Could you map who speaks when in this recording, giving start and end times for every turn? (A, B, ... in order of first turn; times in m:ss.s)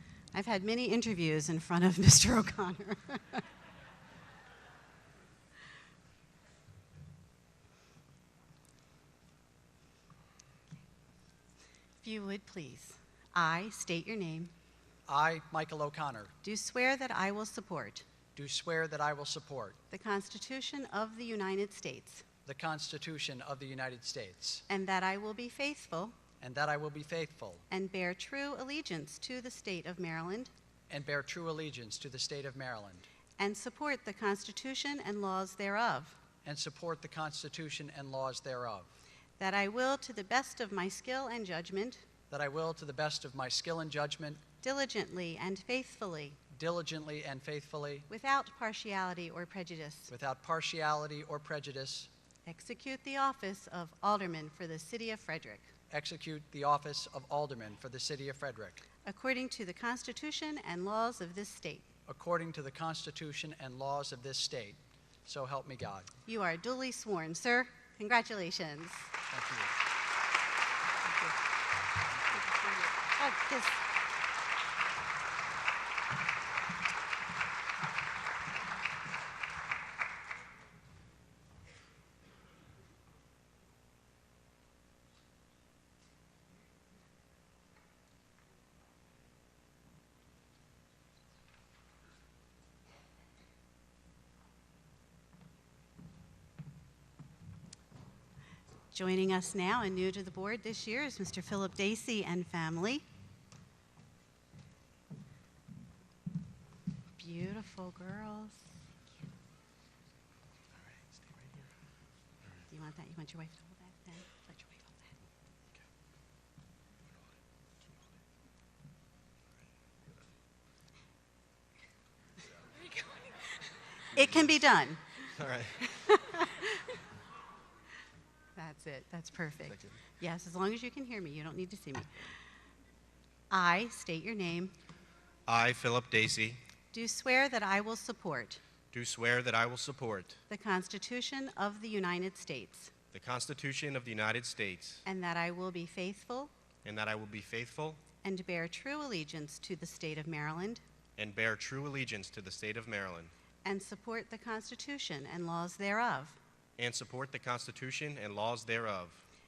0:00.3-0:03.4 A
0:12.0-0:14.5 A
0:15.1-0:16.3 B
0:16.4-0:18.1 A
0:18.4-0:19.8 B
0:19.9-0:22.2 A
0:22.5-0:24.6 B
0:24.7-0:26.2 A
0:26.4-0:27.6 B
0:27.7-0:30.5 A
0:30.9-0:33.1 B
0:33.4-0:36.2 A
0:36.4-0:38.9 B
0:39.4-0:42.0 A
0:42.3-0:44.4 B
0:44.6-0:46.4 A
0:46.5-0:48.1 B
0:48.1-0:50.1 A
0:50.1-0:52.1 B
0:52.5-0:55.7 A
0:55.9-0:58.8 B
0:59.0-1:01.9 A
1:02.1-1:06.1 B
1:06.3-1:09.1 A
1:09.3-1:09.7 B
1:12.2-1:12.5 B
1:13.2-1:13.8 A
1:38.9-1:43.0 A
1:47.2-1:48.6 A
1:50.8-1:51.7 C
1:52.7-1:55.1 A
2:04.1-2:05.0 A
2:05.4-2:05.9 C
2:08.6-2:12.3 A
2:13.5-2:14.7 A
2:15.5-2:16.6 C
2:16.9-2:18.6 A
2:18.9-2:20.4 C
2:20.5-2:22.9 A
2:23.1-2:25.0 C
2:25.0-2:26.5 A
2:26.8-2:28.0 C
2:28.2-2:30.8 A
2:31.2-2:33.3 C
2:33.6-2:36.4 A
2:36.8-2:39.2 C